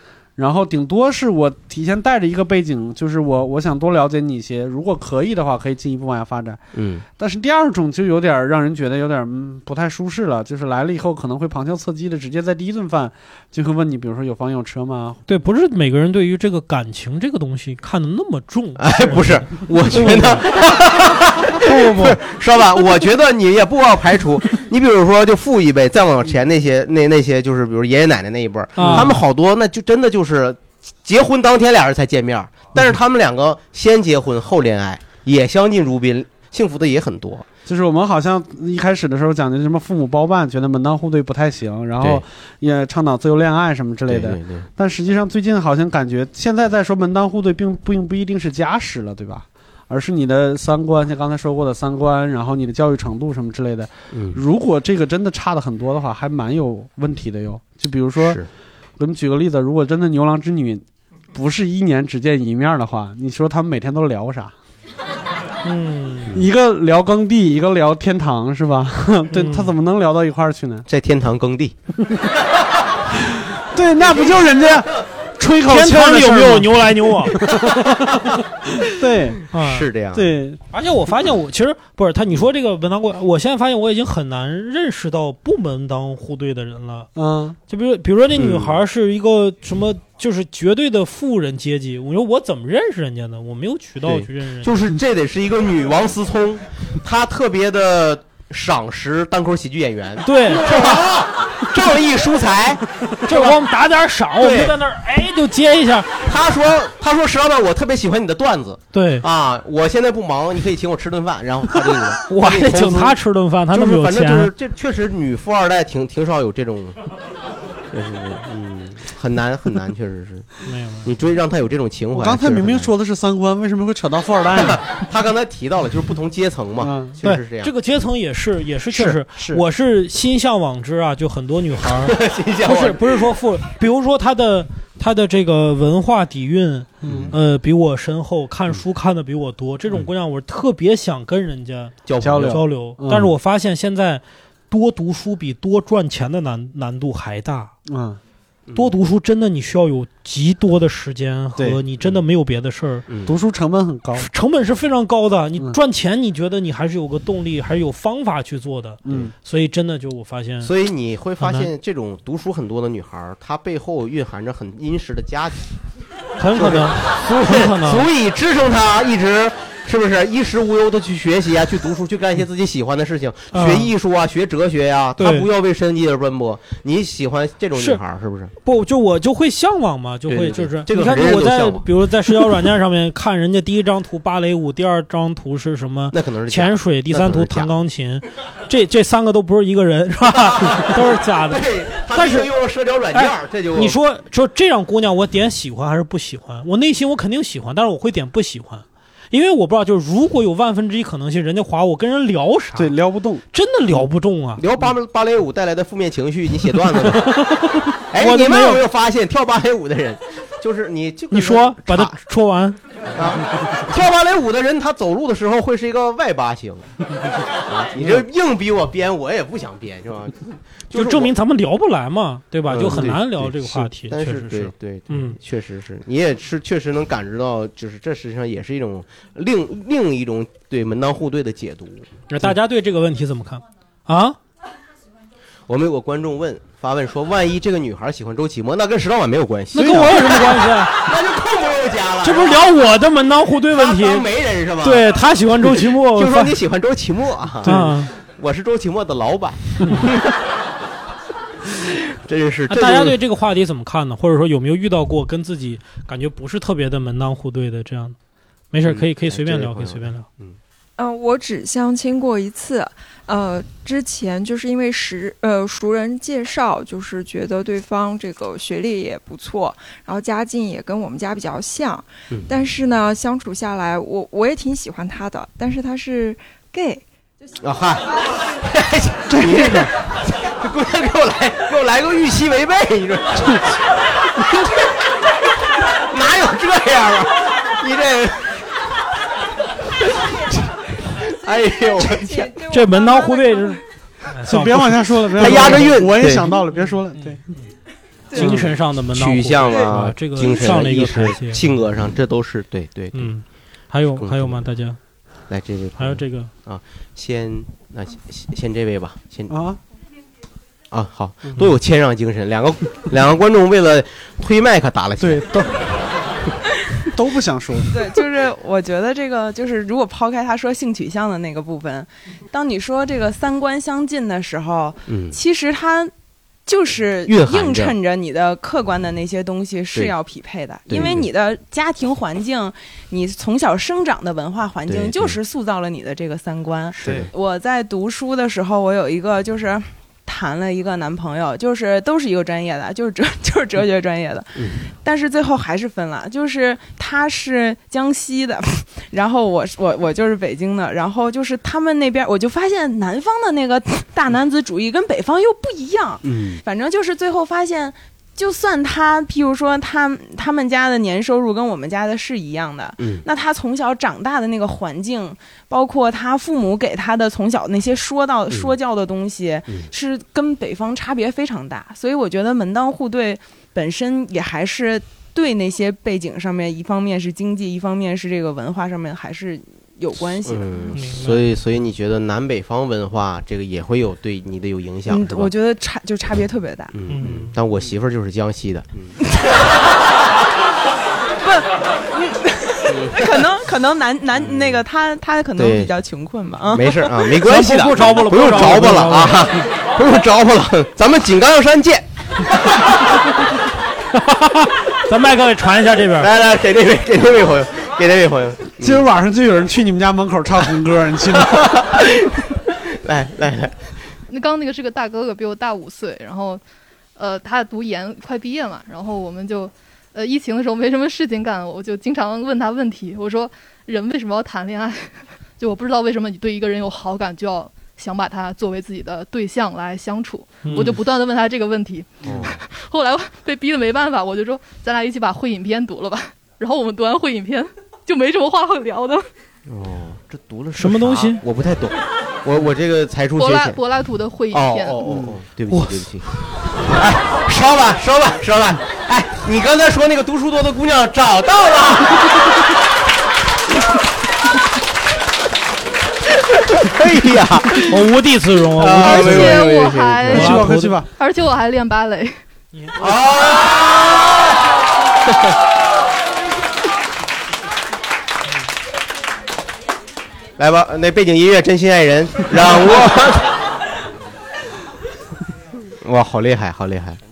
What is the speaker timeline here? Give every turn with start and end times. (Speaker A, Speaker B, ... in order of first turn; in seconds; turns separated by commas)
Speaker A: 0.4-6.6, Speaker B: 6.7-7.0, Speaker A: 7.2-15.2, Speaker C: 15.3-20.5, Speaker B: 18.8-37.5, Speaker C: 28.8-29.1, Speaker A: 28.8-29.1, Speaker A: 37.6-58.4, Speaker B: 44.1-44.6, Speaker B: 54.1-54.4, Speaker B: 58.2-58.5, Speaker A: 59.0-64.5, Speaker C: 65.6-66.4, Speaker A: 66.3-70.8, Speaker C: 69.3-69.7, Speaker B: 70.9-71.7, Speaker A: 73.3-79.4, Speaker C: 75.6-77.4, Speaker B: 77.4-78.3, Speaker C: 79.5-79.9, Speaker B: 79.5-80.3, Speaker A: 80.1-80.6, Speaker C: 80.7-87.1, Speaker A: 87.1-87.6, Speaker C: 87.7-94.8, Speaker B: 88.3-88.8, Speaker B: 94.1-103.6, Speaker C: 100.2-100.7, Speaker C: 103.2-106.2, Speaker B: 104.3-104.7, Speaker B: 106.2-113.2, Speaker C: 108.9-109.3, Speaker C: 112.3-114.5, Speaker B: 113.7-117.0, Speaker B: 117.9-120.5, Speaker C: 120.7-121.1, Speaker B: 121.0-122.9, Speaker A: 122.1-124.8, Speaker B: 124.5-127.7, Speaker A: 126.8-127.4, Speaker C: 127.6-147.7, Speaker A: 129.1-129.6, Speaker B: 131.8-133.3, Speaker A: 137.0-137.3, Speaker B: 137.0-137.3, Speaker B: 142.0-142.6, Speaker A: 142.2-143.3, Speaker A: 147.9-148.2, Speaker B: 148.7-148.9, Speaker C: 148.7-153.1, Speaker A: 151.6-151.8, Speaker B: 153.1-153.3, Speaker A: 153.2-154.3, Speaker C: 154.2-160.7, Speaker A: 159.0-159.3, Speaker B: 160.6-165.6, Speaker C: 161.4-161.7, Speaker C: 166.4-168.1, Speaker B: 166.6-178.5, Speaker C: 173.5-173.9, Speaker C: 175.2-175.5, Speaker C: 177.7-178.0, Speaker C: 178.6-192.5, Speaker B: 180.3-181.8, Speaker B: 186.1-187.7, Speaker B: 190.3-194.0, Speaker C: 193.1-202.9, Speaker A: 202.7-203.4, Speaker C: 203.5-204.6, Speaker B: 204.6-207.5, Speaker B: 208.1-212.2, Speaker C: 208.2-208.8, Speaker C: 211.3-212.8, Speaker B: 213.1-216.9, Speaker B: 217.6-221.3, Speaker C: 220.9-225.4, Speaker B: 222.7-232.1, Speaker C: 232.3-234.4, Speaker B: 235.7-242.6, Speaker C: 239.7-241.0, Speaker A: 239.8-240.1, Speaker C: 242.2-244.2, Speaker B: 243.7-250.5, Speaker C: 244.8-246.5, Speaker C: 247.6-248.1, Speaker A: 247.6-247.9, Speaker C: 249.8-250.1, Speaker B: 251.8-253.2, Speaker C: 252.7-258.1, Speaker C: 258.7-260.2, Speaker B: 258.8-260.6, Speaker D: 261.0-277.0, Speaker B: 277.6-283.8, Speaker A: 279.4-279.8, Speaker B: 286.1-288.6, Speaker B: 291.1-292.6, Speaker C: 292.7-293.8, Speaker C: 294.3-295.8, Speaker A: 294.4-297.4, Speaker B: 295.4-296.6, Speaker C: 297.1-297.7, Speaker C: 298.3-301.7, Speaker A: 298.4-298.7, Speaker B: 299.1-303.4, Speaker C: 303.1-305.0, Speaker B: 304.1-304.7, Speaker B: 305.5-309.5, Speaker C: 306.0-306.5, Speaker A: 309.5-309.8, Speaker B: 310.9-315.5, Speaker A: 315.2-315.7, Speaker A: 317.1-318.0, Speaker E: 317.9-326.1, Speaker B: 325.1-325.4, Speaker E: 326.6-381.0, Speaker B: 327.2-327.9, Speaker B: 330.9-331.3, Speaker B: 334.9-335.4, Speaker B: 336.9-337.3, Speaker B: 344.6-344.8, Speaker B: 356.2-356.6, Speaker B: 363.0-363.2, Speaker B: 368.5-368.8, Speaker B: 380.4-385.5, Speaker C: 380.9-381.5, Speaker E: 385.1-386.9, Speaker B: 386.9-389.1, Speaker C: 387.1-387.6, Speaker E: 391.4-397.1, Speaker B: 392.9-393.4, Speaker B: 394.4-394.8, Speaker B: 395.5-395.9, Speaker B: 396.7-402.9, Speaker C: 397.4-399.5, Speaker C: 404.2-406.3, Speaker B: 406.2-409.1, Speaker A: 408.8-411.8, Speaker B: 411.4-413.9, Speaker F: 414.3-416.6, Speaker F: 417.1-439.3, Speaker C: 430.6-430.9, Speaker B: 432.2-432.6, Speaker B: 439.7-443.8, Speaker C: 440.7-441.4, Speaker F: 443.4-445.0, Speaker B: 444.5-452.3, Speaker A: 445.0-445.4, Speaker C: 445.7-446.0, Speaker B: 456.5-458.0, Speaker C: 457.8-459.7, Speaker B: 458.8-460.6, Speaker F: 459.0-460.5, Speaker A: 460.3-461.1, Speaker C: 460.3-460.9, Speaker F: 461.2-462.4, Speaker B: 462.9-464.4, Speaker B: 465.2-465.5, Speaker B: 470.6-473.5, Speaker B: 476.0-477.2